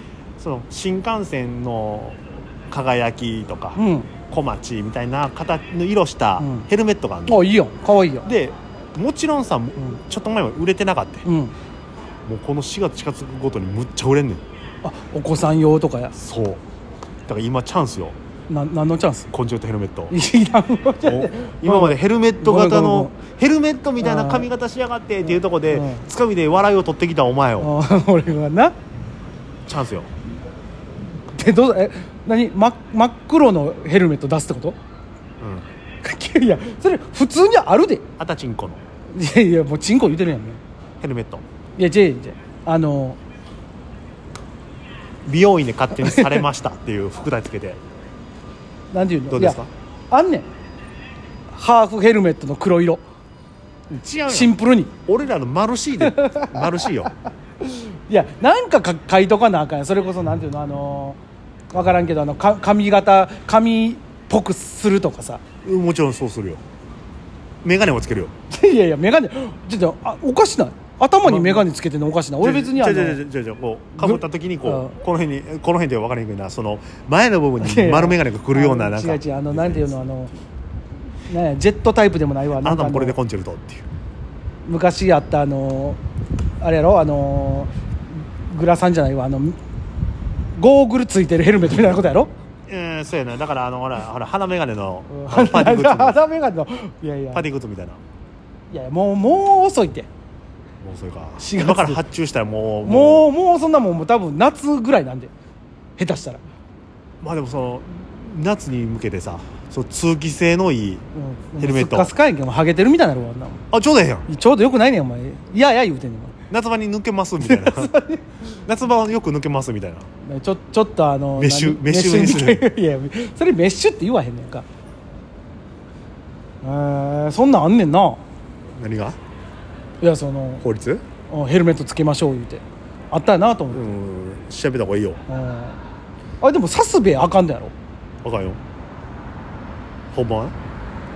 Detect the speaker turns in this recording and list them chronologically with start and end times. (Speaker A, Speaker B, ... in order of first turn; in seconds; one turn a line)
Speaker A: 0.4-7.5
Speaker B: 3.8-4.1
Speaker B: 6.4-6.7
Speaker B: 7.3-8.2
Speaker A: 8.2-11.2
Speaker B: 11.2-11.5
Speaker A: 12.2-14.4
Speaker B: 14.8-16.1
Speaker A: 16.1-16.6
Speaker A: 17.2-18.1
Speaker B: 18.5-19.3
Speaker A: 19.3-20.1
Speaker B: 20.1-23.1
Speaker A: 21.0-27.7
Speaker B: 24.0-24.5
Speaker B: 25.2-26.0
Speaker B: 27.6-28.7
Speaker A: 29.6-30.1
Speaker B: 31.3-34.8
Speaker A: 35.4-35.6
Speaker B: 36.0-38.0
Speaker A: 38.2-38.8
Speaker B: 39.1-40.6
Speaker A: 41.0-41.4
Speaker B: 41.8-43.2
Speaker A: 45.2-47.8
Speaker B: 46.0-46.4
Speaker B: 48.9-50.5
Speaker A: 49.3-49.7
Speaker B: 51.5-53.0
Speaker A: 53.9-54.5
Speaker B: 54.3-54.9
Speaker A: 55.0-57.1
Speaker B: 56.0-56.9
Speaker B: 57.6-61.2
Speaker B: 61.7-65.4
Speaker A: 65.6-66.6
Speaker A: 67.6-68.3
Speaker B: 68.5-73.2
Speaker A: 71.2-71.7
Speaker A: 72.4-80.0
Speaker B: 74.0-74.9
Speaker B: 77.6-80.3
Speaker B: 81.3-83.1
Speaker A: 82.6-83.8
Speaker B: 84.7-86.0
Speaker B: 86.6-87.7
Speaker B: 88.5-89.6
Speaker B: 90.5-92.3
Speaker A: 92.7-96.2
Speaker B: 95.1-97.4
Speaker A: 97.3-98.0
Speaker B: 98.7-100.1
Speaker A: 100.8-103.3
Speaker B: 101.4-102.0
Speaker B: 102.8-105.3
Speaker B: 106.0-106.4
Speaker A: 107.2-111.0
Speaker B: 111.1-113.6
Speaker A: 111.6-112.1
Speaker A: 113.7-114.3
Speaker B: 114.3-116.3
Speaker A: 116.5-117.9
Speaker B: 117.4-118.2
Speaker A: 118.6-120.1
Speaker B: 120.2-124.6
Speaker A: 121.3-122.7
Speaker B: 126.6-128.2
Speaker A: 128.8-129.2
Speaker B: 130.0-130.6
Speaker A: 130.6-131.0
Speaker B: 131.3-133.8
Speaker A: 133.7-135.2
Speaker B: 135.3-135.8
Speaker B: 136.4-137.7
Speaker A: 138.2-138.6
Speaker A: 140.1-140.5